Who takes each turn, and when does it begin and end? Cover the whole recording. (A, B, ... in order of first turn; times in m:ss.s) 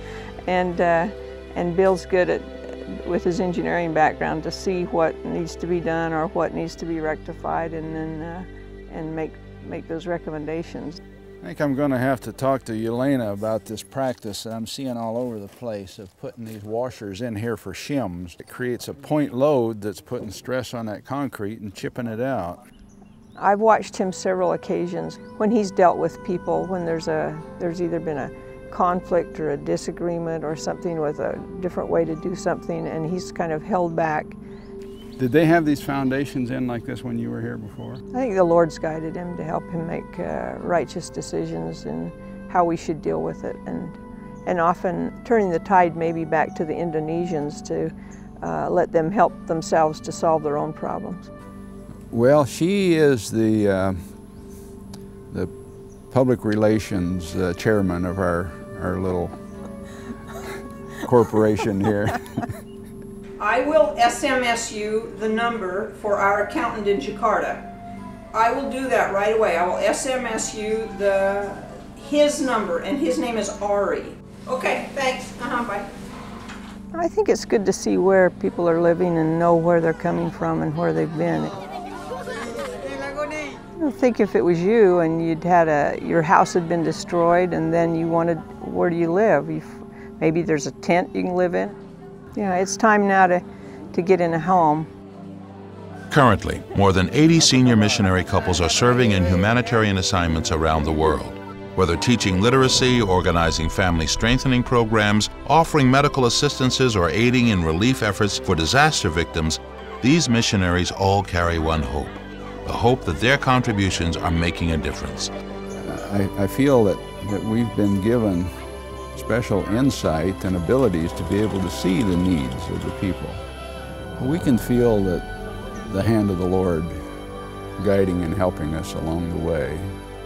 0:00.4-0:11.0 A
0:11.4-0:22.6 B
0:23.4-0:34.4 A
0:35.2-0:38.0 B
0:38.1-0:51.3 A
0:52.1-0:54.2 B
0:56.1-0:59.4 B
1:01.0-1:02.4 B
1:03.4-1:07.6 C
1:08.3-1:15.9 C
1:16.9-1:21.5 A
1:23.8-1:31.8 A
1:32.3-1:34.9 A
1:36.1-1:55.3 D
1:55.8-1:58.6 B
1:59.1-2:03.4 B
2:04.2-2:05.3 B
2:05.8-2:07.0 B
2:07.8-2:09.9 B